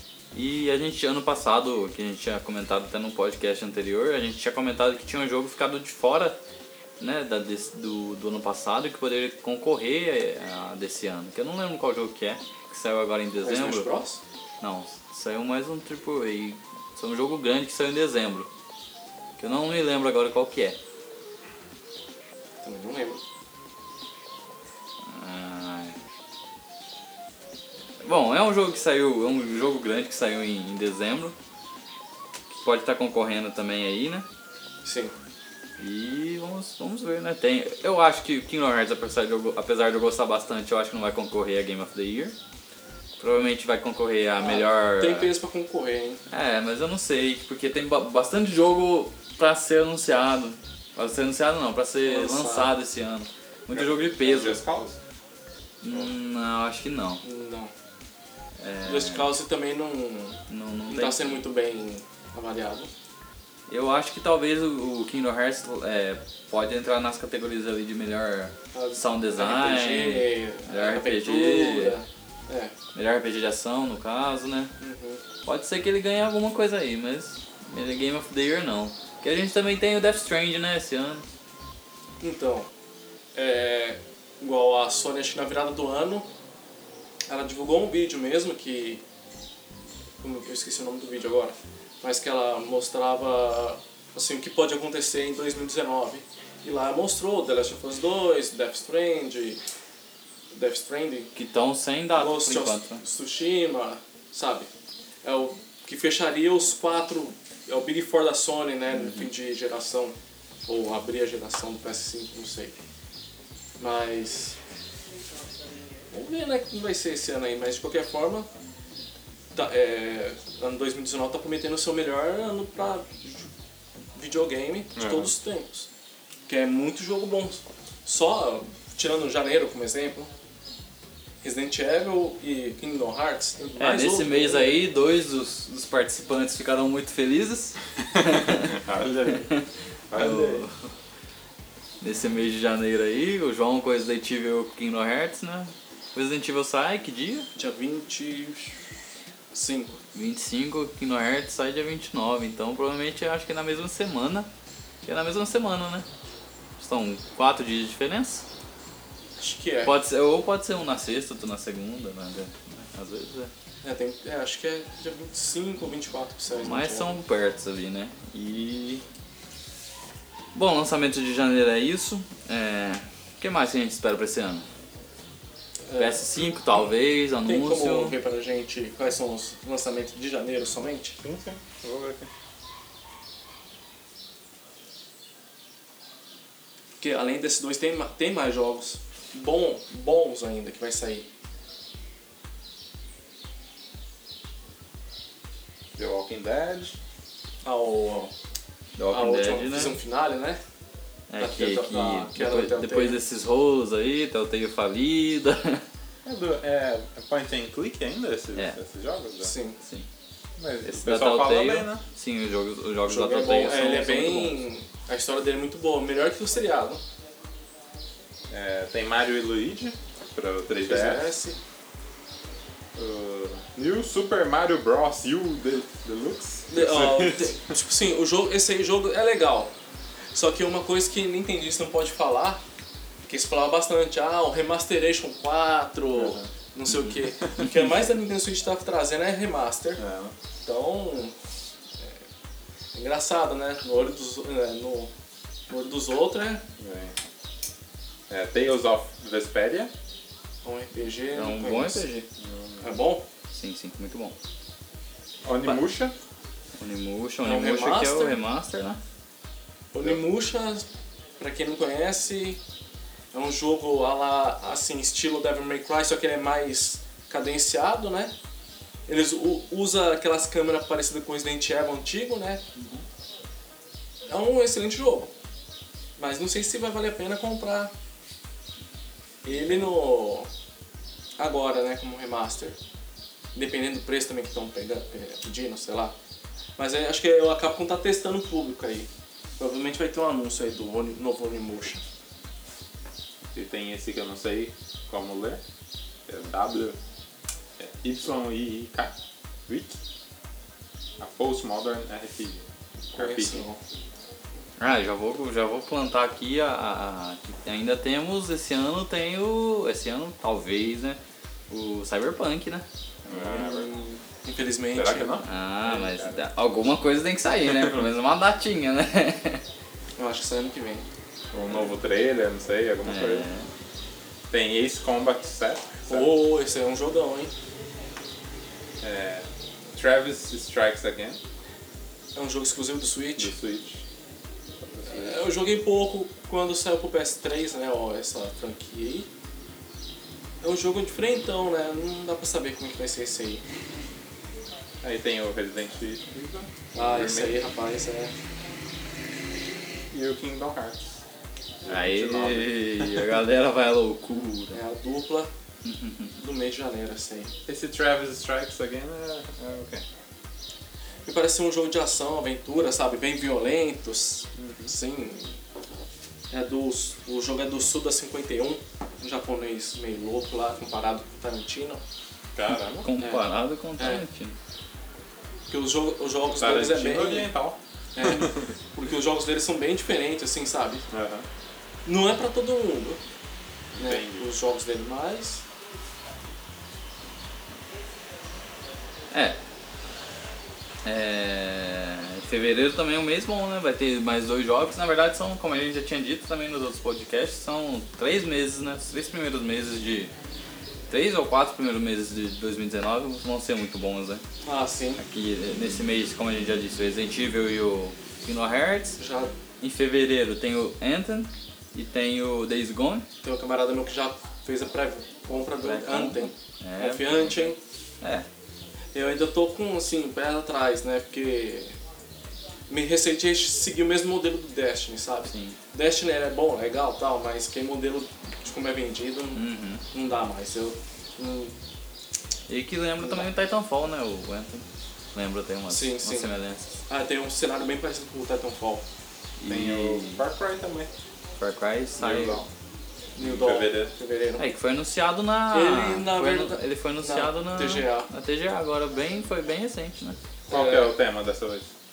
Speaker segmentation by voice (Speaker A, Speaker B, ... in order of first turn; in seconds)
Speaker A: 0.3-6.4, 7.0-13.9, 14.6-18.5, 19.4-20.8, 25.0-25.9, 28.0-31.3, 32.5-34.2, 35.8-42.3, 43.2-45.3, 46.3-54.6, 55.8-57.2, 58.6-59.3, 60.5-61.4, 63.7-72.0, 72.9-74.7, 75.4-81.2, 101.3-103.0, 108.9-109.3, 133.8-140.9, 142.0-147.5, 150.1-154.5, 155.0-156.1, 156.8-158.4, 159.8-163.5, 166.6-169.0, 170.5-174.7, 176.0-178.1, 198.9-200.0, 201.3-205.8, 209.8-210.1, 210.8-214.6, 251.3-252.2, 253.5-254.3, 256.8-259.0, 304.8-311.2, 311.7-312.8, 315.4-319.6, 323.0-323.7, 351.9-354.8, 355.8-356.3, 373.0-374.6, 389.3-389.6, 391.0-400.3, 401.1-404.4, 405.2-409.2, 409.8-413.3, 415.8-417.6, 418.2-418.4, 425.5-425.8, 429.5-430.0, 432.7-436.9, 439.6-440.4, 441.6-442.6, 444.6-450.4
Speaker B: 13.4-14.2, 22.6-23.2, 34.8-35.1, 44.4-46.2, 52.0-52.7, 57.2-57.7, 58.8-62.9, 68.7-72.7, 74.8-75.2, 82.2-82.7, 83.3-86.3, 87.3-89.0, 90.2-99.6, 100.5-101.3, 102.1-104.7, 105.2-112.7, 113.8-114.6, 116.1-118.5, 119.5-123.5, 124.1-125.9, 126.5-130.3, 131.4-134.8, 147.5-148.8, 149.5-150.0, 159.4-159.9, 163.8-167.2, 175.9-176.2, 177.4-181.2, 187.0-191.2, 197.6-198.3, 199.1-200.6, 201.4-203.2, 209.4-209.8, 213.1-217.0, 220.8-221.6, 226.7-229.7, 230.3-232.6, 233.3-240.0, 240.6-241.3, 242.9-245.1, 245.7-246.6, 250.6-252.1, 252.8-253.2, 257.4-258.4, 259.9-260.9, 261.4-262.6, 263.3-268.3, 269.1-272.6, 274.3-275.3, 276.2-277.9, 279.4-280.5, 281.4-282.8, 283.5-286.1, 286.8-289.1, 289.6-292.0, 303.1-303.8, 313.3-315.4, 320.2-321.0, 326.1-327.5, 332.3-333.5, 335.1-339.3, 340.6-343.6, 346.9-348.3, 354.7-355.5, 356.4-357.5, 361.2-365.6, 366.5-372.0, 373.2-373.4, 374.0-374.2, 375.7-377.5, 378.1-381.1, 382.1-383.2, 383.9-385.6, 404.6-405.2, 409.2-409.5, 413.4-417.8, 419.1-422.0, 422.9-431.7, 435.9-436.5, 437.1-439.0, 443.4-444.6, 445.7-448.3, 450.7-451.1
Speaker C: 53.7-55.0, 125.0-125.3, 138.1-139.5, 140.1-140.6, 181.2-182.3, 195.9-197.0, 206.2-209.5, 210.6-212.0, 218.5-221.3, 222.9-227.6, 236.1-236.5, 240.0-240.3, 246.8-247.1, 248.3-249.9, 252.4-252.8, 255.4-256.1, 293.5-295.6, 296.3-297.0, 297.8-299.1, 299.7-300.0, 301.2-303.7, 313.2-313.9, 314.9-316.5, 321.5-323.5, 324.5-326.3, 329.0-331.4, 333.4-334.0, 334.8-335.4, 345.0-347.6, 350.1-351.2, 351.8-353.3, 357.7-360.0, 364.6-364.9, 372.5-373.1, 376.5-377.8, 381.1-381.4, 384.0-384.5, 439.6-441.1, 442.2-442.7, 443.4-444.1, 450.7-451.9